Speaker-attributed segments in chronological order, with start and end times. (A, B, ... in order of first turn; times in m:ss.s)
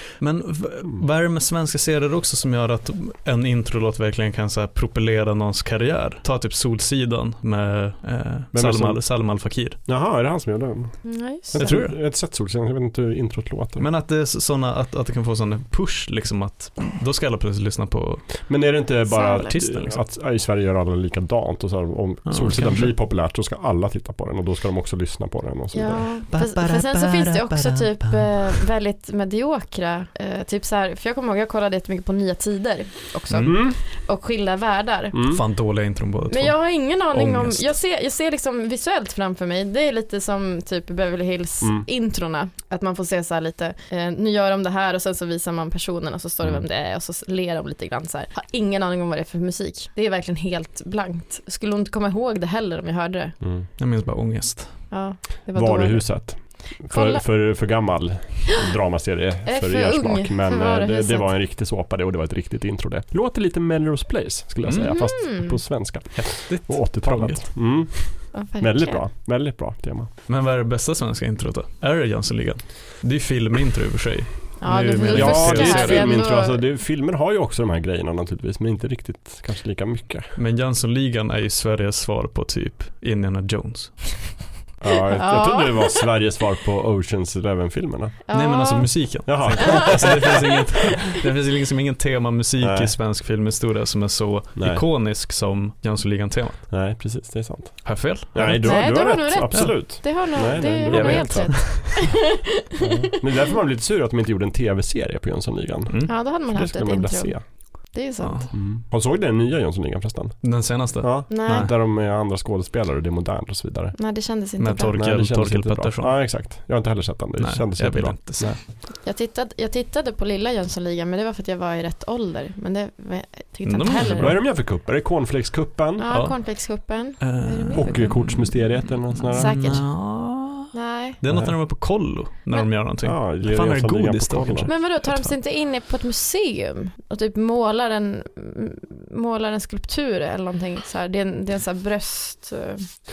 0:00.2-0:09.8 A
0:08.5-0:09.1 B
0:09.8-0:13.8 B
0:11.0-0:11.8 C
0:11.6-0:11.9 A
0:13.8-0:18.5 A
0:18.4-0:26.2 B
0:19.1-0:19.6 C
0:19.5-0:20.0 A
0:22.2-0:23.0 A
0:25.7-0:35.2 C
0:26.3-0:28.6 A
0:33.4-0:33.8 B
0:35.1-0:35.4 B
0:35.3-0:37.7 A
0:36.3-0:53.4 C
0:41.6-0:41.9 B
0:53.4-0:53.7 B
0:53.8-0:54.9 A
0:54.9-0:57.2 C
0:55.5-1:10.1 B
0:59.4-1:01.3 C
1:04.6-1:05.0 A
1:04.8-1:05.6 C
1:06.1-1:07.5 A
1:08.3-1:09.0 C
1:10.3-1:16.1 A
1:14.6-1:16.6 C
1:15.1-1:20.3 B
1:20.4-1:24.3 A
1:24.8-1:28.2 B
1:25.1-1:26.0 C
1:28.3-1:30.1 C
1:28.3-1:36.7 A
1:29.2-1:30.7 B
1:32.6-1:33.0 B
1:34.6-1:34.8 B
1:36.7-1:41.8 B
1:37.8-1:41.9 A
1:38.6-1:42.3 C
1:42.8-1:43.5 C
1:42.8-1:47.4 B
1:45.9-1:46.2 A
1:46.1-1:48.5 C
1:48.2-1:48.5 A
1:48.5-1:53.9 B
1:50.4-1:51.7 A
1:51.3-1:51.7 C
1:53.9-1:55.0 C
1:54.6-1:56.4 A
1:54.9-1:58.6 B
1:57.4-1:58.6 A
1:59.0-2:04.4 C
2:03.6-2:04.4 A
2:04.1-2:06.1 B
2:06.0-2:08.6 C
2:06.1-2:15.4 A
2:07.7-2:09.9 B
2:09.3-2:10.0 C
2:10.7-2:11.2 C
2:11.2-2:11.6 B
2:13.0-2:14.7 B
2:14.7-2:22.9 C